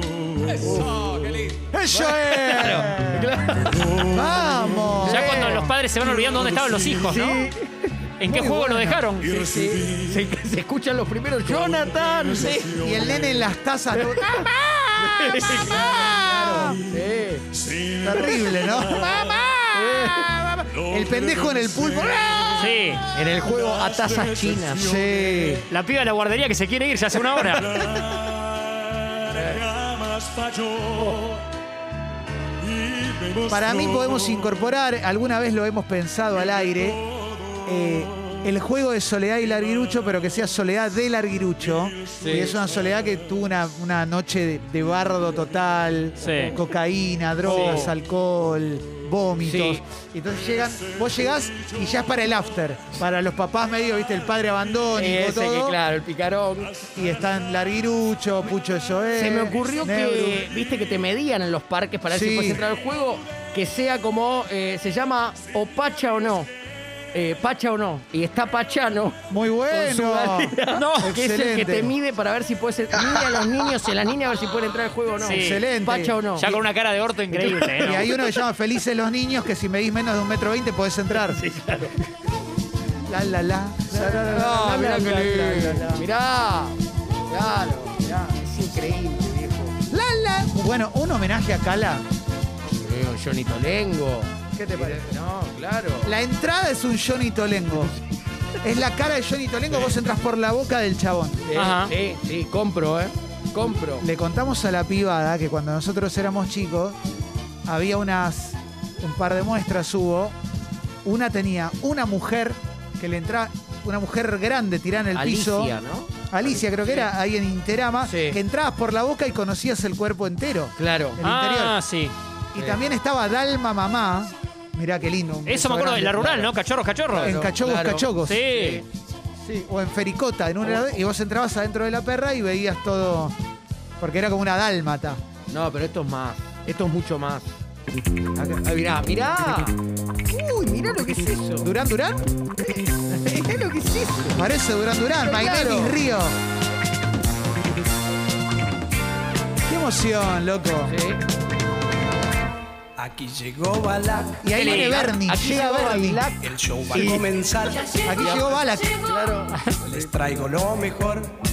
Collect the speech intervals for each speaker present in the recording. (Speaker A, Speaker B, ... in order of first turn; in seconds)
Speaker A: 0.5-0.8, 3.6-4.9, 6.5-6.9, 9.2-10.3, 11.5-13.5, 16.6-19.5, 20.6-22.7, 23.2-25.7, 27.3-31.2, 32.6-34.5, 42.1-42.8, 51.1-51.7
Speaker B: 0.5-5.7, 7.0-8.0, 9.3-12.6, 13.9-17.4, 19.7-20.3, 23.1-24.9, 29.3-29.6, 42.2-42.6, 46.2-46.5, 47.4-47.9, 49.4-49.8, 54.9-56.8, 59.1-66.5, 67.1-76.5, 77.3-77.9, 81.2-82.0, 83.9-86.8, 87.3-89.8, 92.7-96.1, 101.5-104.1, 115.1-117.1, 118.0-118.4, 120.8-121.2, 127.1-128.8, 130.6-130.9, 135.5-137.6, 138.4-141.7, 142.6-144.5, 145.2-146.0, 150.8-151.2, 154.7-157.3, 158.2-160.5
Speaker C: 1.7-7.2, 8.2-9.1, 12.3-16.8, 18.0-22.8, 24.8-25.7, 33.5-37.0, 37.6-55.8, 56.9-60.5, 62.1-62.6, 69.3-72.0, 75.3-76.6, 77.8-81.4, 83.1-86.1, 89.9-92.0, 94.6-95.2, 96.0-97.9, 98.6-101.5, 104.0-107.0, 107.7-110.4, 111.0-115.7, 116.3-121.8, 122.5-126.5, 127.2-128.5, 129.5-133.3, 134.0-135.2, 141.6-142.3, 144.3-146.4, 149.7-151.0, 154.4-156.2, 156.9-157.3, 158.0-159.0
Speaker D: 5.1-7.4, 8.2-9.3, 22.6-23.0, 25.7-27.7, 46.2-46.5, 47.5-47.8, 70.7-71.1, 75.2-75.7, 76.4-78.1, 101.5-101.9, 121.2-122.1, 125.5-127.4, 128.2-128.8, 154.5-155.1
Speaker E: 153.0-154.4, 156.4-158.5, 159.8-161.3